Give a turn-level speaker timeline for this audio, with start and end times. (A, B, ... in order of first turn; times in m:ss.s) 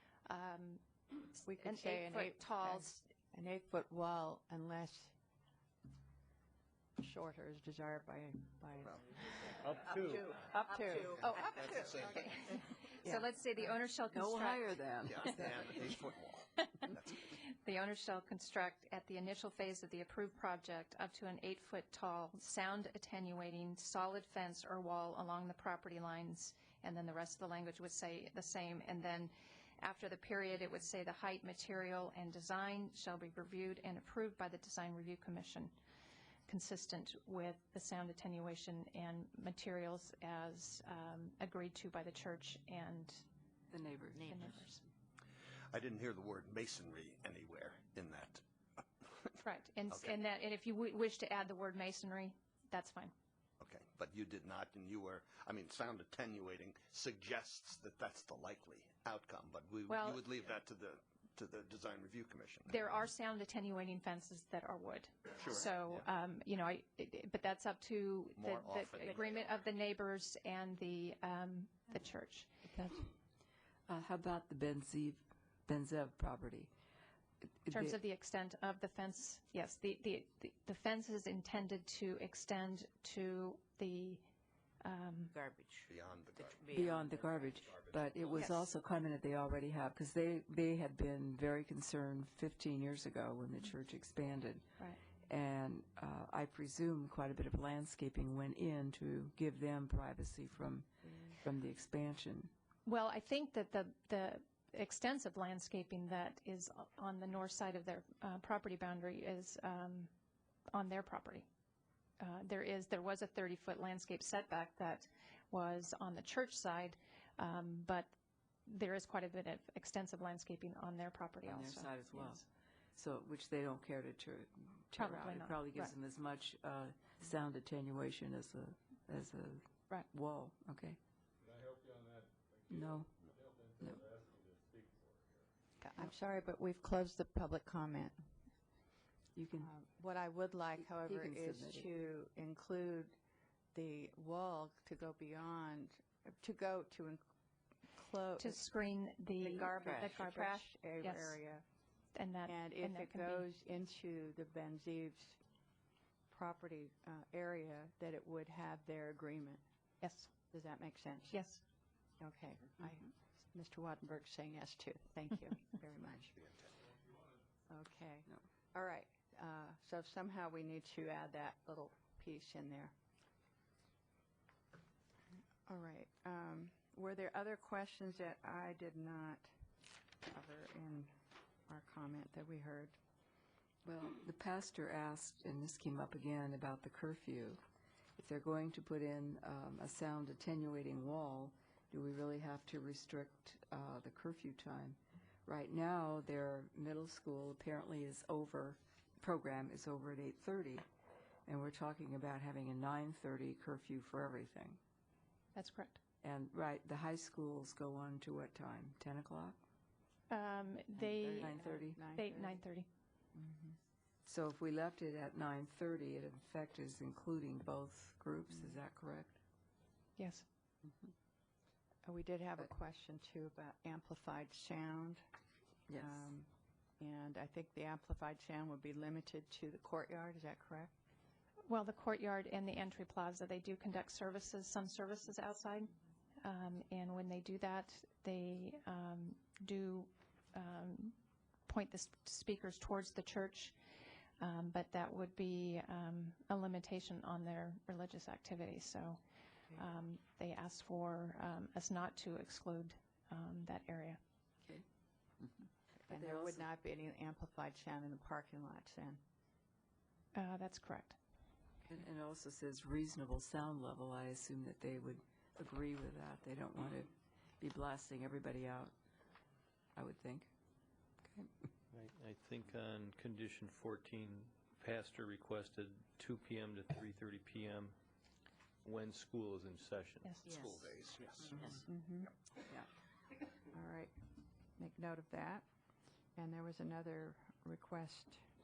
0:00.3-0:03.0 A
0:01.5-0:05.2 B
0:07.0-0:11.3 B
0:09.7-0:10.3 C
0:10.7-0:14.6 A
0:11.0-0:12.3 D
0:13.0-0:13.3 B
0:14.1-0:15.7 E
0:15.2-0:17.3 D
0:16.6-0:35.8 A
0:36.5-0:43.2 A
0:43.7-0:44.4 E
0:44.2-0:44.8 A
0:45.7-0:48.4 D
0:49.0-0:49.4 D
0:49.4-0:53.1 A
0:53.6-1:02.9 D
0:59.9-1:00.2 A
1:02.7-1:12.6 A
1:05.4-1:06.1 D
1:08.4-1:09.4 D
1:12.6-1:13.1 B
1:13.9-1:16.7 E
1:17.6-1:18.0 E
1:17.7-1:24.3 A
1:24.8-1:25.3 A
1:25.9-1:26.9 D
1:26.7-1:34.7 E
1:27.6-1:28.1 D
1:28.4-1:28.7 A
1:35.3-1:42.5 E
1:42.8-1:50.1 A
1:50.7-1:51.5 A
1:52.2-1:58.1 A
1:58.7-2:02.4 A
2:01.4-2:02.4 E
2:03.0-2:11.0 E
2:05.0-2:05.9 A
2:11.4-2:15.5 F
2:12.7-2:13.1 E
2:15.8-2:18.2 B
2:19.4-2:19.7 E
2:19.6-2:23.2 B
2:20.8-2:21.9 E
2:23.7-2:27.2 B
2:27.9-2:28.6 B
2:28.4-2:31.4 A
2:29.4-2:31.6 B
2:32.2-2:33.5 A
2:32.5-2:35.4 B
2:36.3-2:39.6 B
2:40.0-2:40.3 A
2:40.5-2:41.4 B
2:41.3-2:41.6 A
2:42.2-2:46.3 B
2:46.4-2:46.7 D
2:47.7-2:52.9 B
2:55.7-2:59.5 B
3:00.2-3:01.1 B
3:01.7-3:03.0 B
3:03.8-3:07.6 E
3:08.2-3:20.8 E
3:21.5-3:24.8 E
3:25.6-3:26.0 A
3:26.2-3:29.6 E
3:30.3-3:32.9 A
3:31.1-3:32.0 E
3:31.2-3:32.6 B
3:33.3-3:33.8 B
3:34.3-3:39.4 E
3:38.5-3:38.8 B
3:40.2-3:40.4 A
3:42.0-3:45.2 B
3:45.9-3:46.3 E
3:46.0-3:50.9 B
3:51.6-4:01.2 A
4:01.7-4:03.8 A
4:04.4-4:09.2 A
4:09.7-4:14.2 A
4:16.0-4:16.7 E
4:16.1-4:19.2 B
4:20.3-4:21.2 A
4:21.9-4:28.9 E
4:30.0-4:30.5 E
4:32.0-4:38.0 C
4:38.8-4:40.4 C
4:40.4-4:41.8 D
4:41.9-4:42.3 B
4:43.7-4:44.1 B
4:44.8-4:45.6 B
4:46.4-4:48.4 B